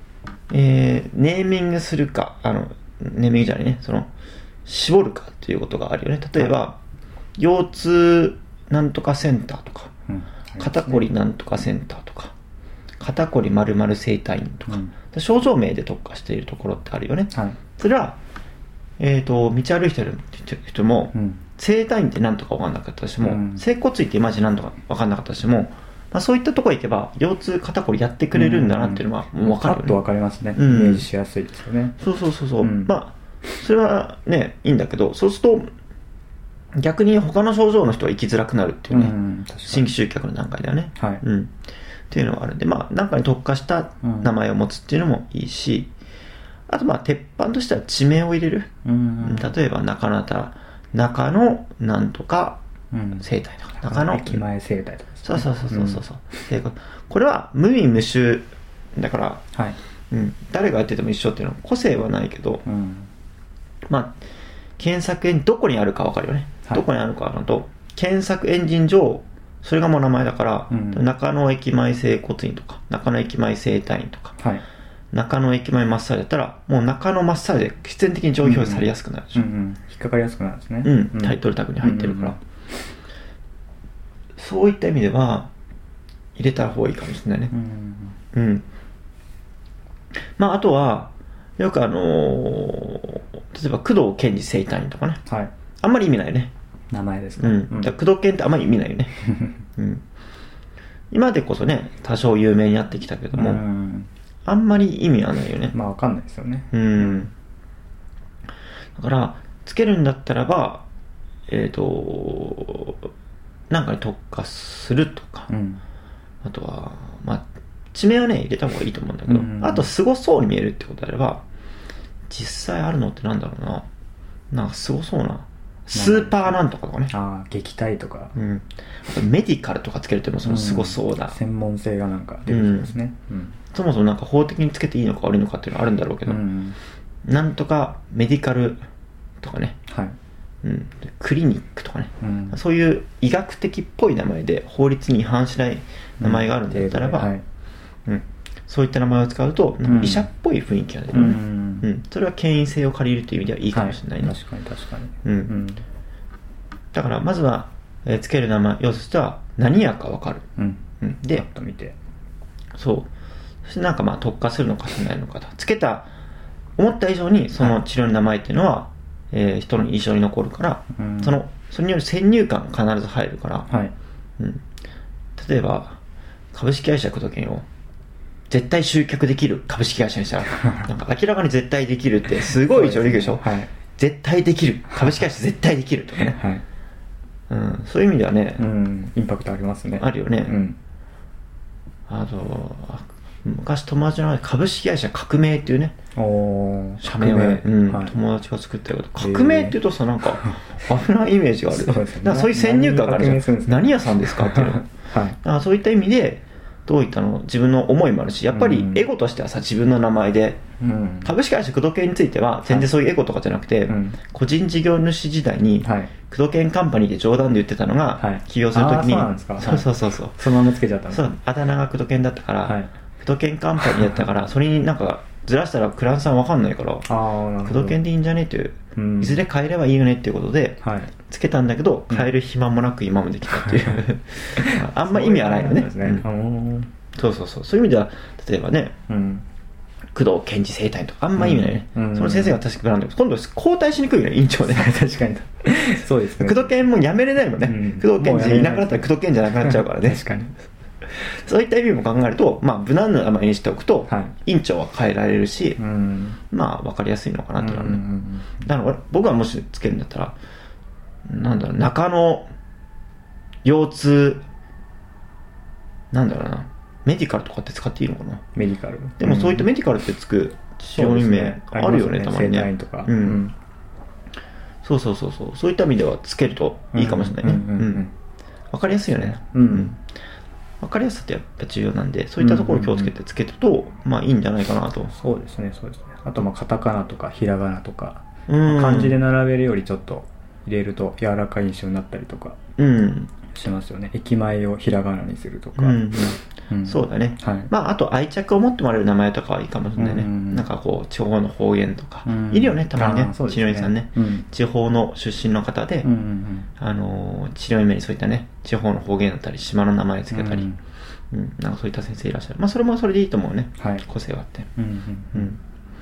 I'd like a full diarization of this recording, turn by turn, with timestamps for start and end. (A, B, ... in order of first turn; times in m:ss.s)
0:00.5-0:04.1 A
0:04.6-0:06.8 A
0:07.4-0:09.9 A
0:10.1-0:11.1 B
0:10.6-0:12.3 A
0:13.0-0:18.2 A
0:14.7-0:14.9 B
0:17.3-0:17.6 B
0:19.0-0:30.0 A
0:21.1-0:21.4 B
0:23.2-0:23.6 B
0:28.3-0:32.0 B
0:30.5-0:31.0 A
0:32.0-0:35.7 A
0:32.6-0:32.9 B
0:36.7-0:39.1 A
0:38.9-0:39.9 B
0:39.7-0:41.5 A
0:41.0-0:41.2 B
0:42.1-0:45.9 A
0:44.0-0:44.3 B
0:46.7-0:48.7 A
0:48.8-0:49.5 B
0:49.2-0:52.6 A
0:52.9-0:53.3 B
0:53.2-0:54.4 A
0:53.8-0:56.0 B
0:55.2-0:59.4 A
1:00.1-1:02.6 A
1:02.6-1:03.1 B
1:03.9-1:04.2 A
1:04.8-1:14.4 A
1:10.7-1:11.0 B
1:14.4-1:14.6 B
1:15.1-1:19.5 A
1:18.4-1:22.4 B
1:20.8-1:22.4 A
1:24.4-1:25.5 A
1:26.4-1:27.5 A
1:27.5-1:28.2 B
1:28.3-1:28.6 A
1:30.4-1:35.2 A
1:35.2-1:35.5 B
1:35.8-1:36.5 A
1:36.9-1:37.9 B
1:37.4-1:39.2 A
1:39.8-1:40.0 A
1:41.1-1:43.6 A
1:43.3-1:44.1 B
1:44.4-1:45.8 A
1:45.7-1:47.3 B
1:46.7-1:47.3 A
1:49.0-1:50.8 A
1:51.5-1:53.1 A
1:53.7-1:55.5 A
1:55.5-1:55.8 B
1:56.4-2:01.4 A
1:59.3-1:59.9 B
2:02.3-2:03.8 A
2:04.5-2:07.1 A
2:05.9-2:06.6 B
2:07.1-2:08.3 B
2:08.3-2:11.4 A
2:10.4-2:13.6 B
2:12.5-2:12.9 A
2:13.7-2:16.4 A
2:16.2-2:16.8 B
2:17.2-2:18.8 A
2:19.4-2:19.8 A
2:19.9-2:20.1 B
2:20.6-2:27.3 A
2:22.2-2:22.6 B
2:26.2-2:27.4 B
2:28.0-2:34.3 A
2:29.8-2:30.3 B
2:31.1-2:31.9 B
2:33.7-2:35.8 B
2:35.2-2:35.5 A
2:36.9-2:40.4 A
2:40.6-2:42.0 B
2:41.0-2:41.4 A
2:42.7-2:43.1 A
2:43.6-2:46.1 A
2:46.8-2:53.7 A
2:50.9-2:51.4 B
2:53.7-2:53.9 B
2:55.4-2:56.0 A
2:56.5-2:57.6 A
2:58.5-3:06.4 A
3:02.6-3:03.7 B
3:04.9-3:05.2 B
3:06.2-3:06.6 B
3:07.5-3:08.6 A
3:08.6-3:10.8 B
3:10.0-3:10.6 A
3:12.1-3:15.9 A
3:16.2-3:18.2 B
3:17.0-3:24.9 A
3:19.2-3:20.7 B
3:21.7-3:25.4 B
3:25.4-3:30.6 A
3:28.5-3:29.0 B
3:30.8-3:31.3 B
3:31.2-3:40.5 A
3:32.6-3:32.9 B
3:33.9-3:34.2 B
3:35.8-3:36.1 B
3:38.2-3:41.3 B
3:41.1-3:47.1 A
3:42.6-3:42.9 B
3:43.8-3:44.2 B
3:47.0-3:48.0 B
3:47.6-3:56.2 A
3:49.0-3:49.4 B
3:50.8-3:51.1 B
3:53.4-3:56.9 B
3:57.1-3:58.9 A
3:59.1-3:59.4 B
4:00.1-4:05.0 A
4:01.4-4:02.6 B
4:04.7-4:06.8 B
4:06.4-4:10.2 A
4:07.6-4:10.6 B
4:11.0-4:15.8 A
4:14.1-4:14.3 B
4:15.8-4:16.4 B
4:16.5-4:18.0 A
4:17.6-4:18.6 B
4:18.6-4:20.4 A
4:21.3-4:22.5 A
4:23.6-4:24.4 A
4:26.1-4:28.4 A
4:28.5-4:29.7 B
4:29.2-4:33.4 A
4:30.9-4:33.5 B
4:34.8-4:38.1 A
4:36.9-4:38.1 B
4:38.7-4:40.0 A
4:39.4-4:40.0 B
4:40.8-4:45.1 A
4:42.4-4:43.1 B
4:45.1-4:52.6 B
4:48.5-4:49.2 A
4:52.8-4:53.3 A
4:53.5-4:56.1 B
4:55.8-5:06.1 A
4:56.7-4:57.7 B
5:00.0-5:00.6 B
5:02.2-5:04.4 B
5:06.0-5:06.7 B
5:06.8-5:10.7 A
5:10.3-5:10.8 B
5:11.3-5:14.7 A
5:13.8-5:14.0 B
5:14.8-5:15.6 B